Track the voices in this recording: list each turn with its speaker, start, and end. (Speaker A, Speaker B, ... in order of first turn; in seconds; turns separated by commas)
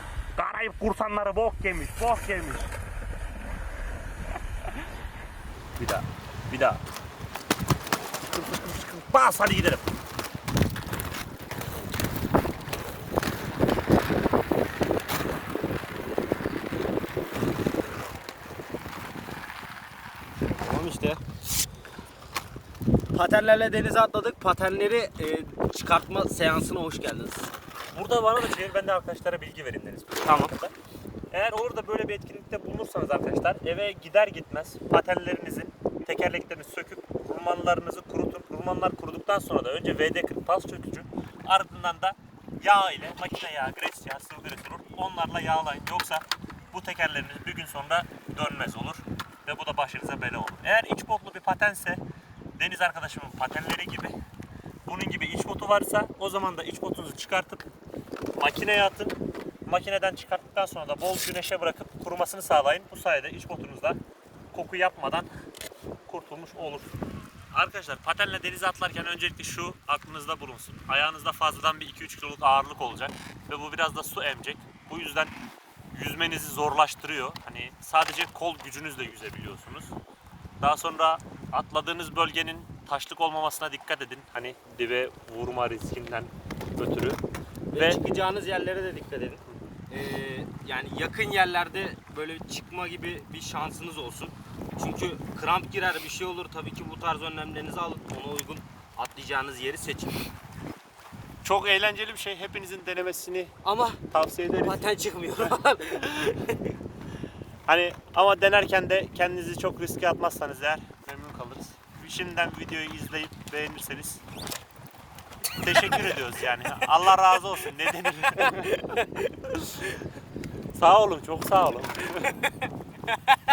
Speaker A: 0.3-2.7, Speaker A: 5.8-6.8, Speaker A: 8.3-9.9, Speaker B: 20.6-21.2, Speaker B: 23.1-27.5, Speaker A: 27.9-30.7, Speaker B: 30.2-30.5, Speaker A: 31.3-52.0, Speaker A: 52.6-54.1, Speaker A: 54.9-57.7, Speaker A: 58.4-64.0, Speaker A: 64.5-65.3, Speaker A: 66.1-66.9, Speaker A: 67.5-75.3, Speaker A: 75.9-80.0, Speaker A: 80.6-87.2, Speaker B: 87.7-100.3, Speaker A: 101.4-103.5, Speaker B: 103.6-104.0, Speaker A: 104.1-104.8, Speaker B: 104.5-106.7, Speaker A: 107.7-114.2, Speaker A: 115.6-118.7, Speaker B: 118.4-119.3, Speaker A: 120.7-122.3